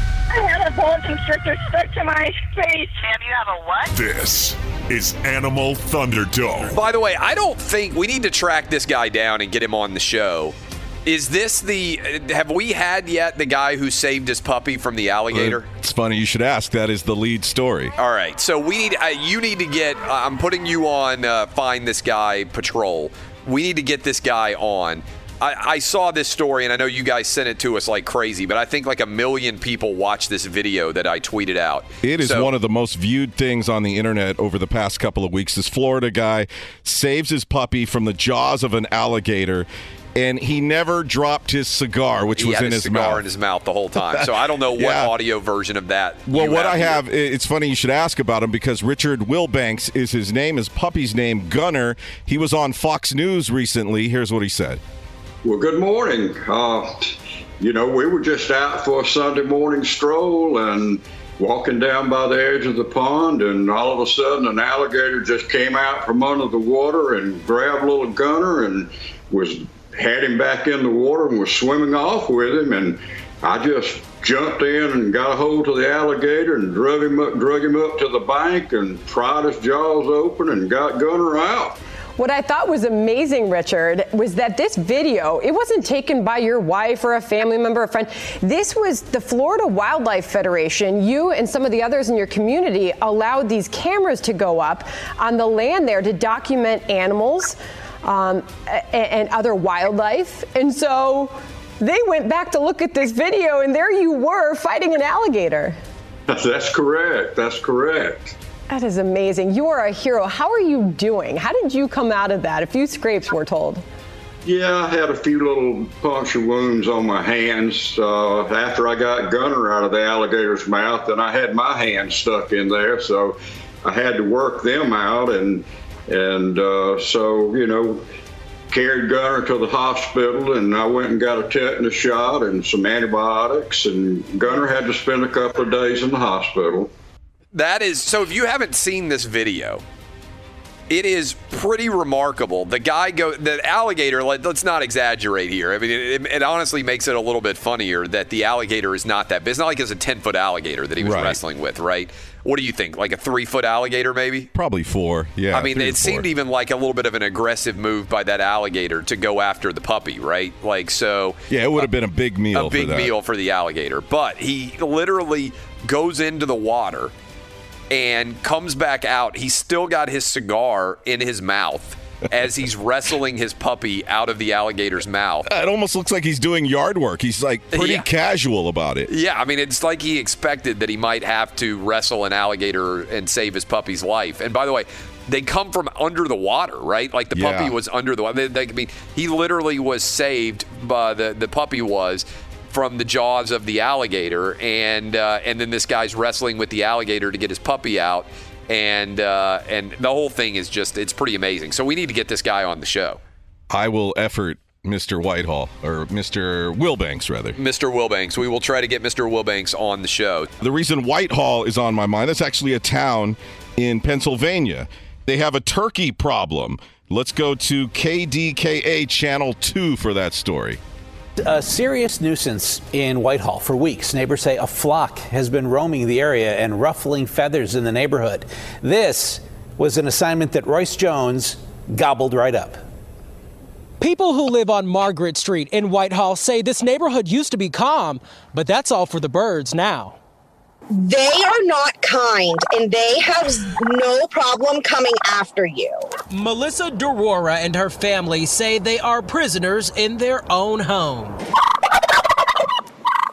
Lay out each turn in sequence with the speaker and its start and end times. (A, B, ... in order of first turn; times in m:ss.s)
0:00.3-0:03.9 A
0:03.9-0:06.7 B
0:06.7-0:10.6 C
0:11.1-0:15.7 C
0:15.3-0:17.9 D
0:18.0-0:32.5 C
0:32.0-0:43.2 D
0:42.4-0:47.0 C
0:44.1-0:45.1 D
0:46.3-0:54.8 D
0:55.4-1:21.8 E
1:22.2-1:45.8 F
1:46.3-1:48.4 E
1:48.7-1:53.8 F
1:54.4-2:08.0 E
2:08.7-2:16.9 E
2:17.5-2:19.8 C
2:20.9-2:34.5 C
2:31.0-2:31.4 D
2:34.5-2:36.3 D
2:35.5-2:41.9 C
2:41.5-2:43.1 D
2:42.5-2:47.1 C
2:47.9-2:55.4 C
2:55.5-2:59.1 D
2:57.7-2:58.1 C
2:59.1-3:23.2 C
3:07.4-3:07.7 D
3:23.7-3:27.6 D
3:27.6-3:30.5 C
3:30.6-3:40.8 D
3:41.4-3:52.8 G
3:54.0-4:00.2 H
4:00.9-4:06.1 I
4:06.3-4:11.4 H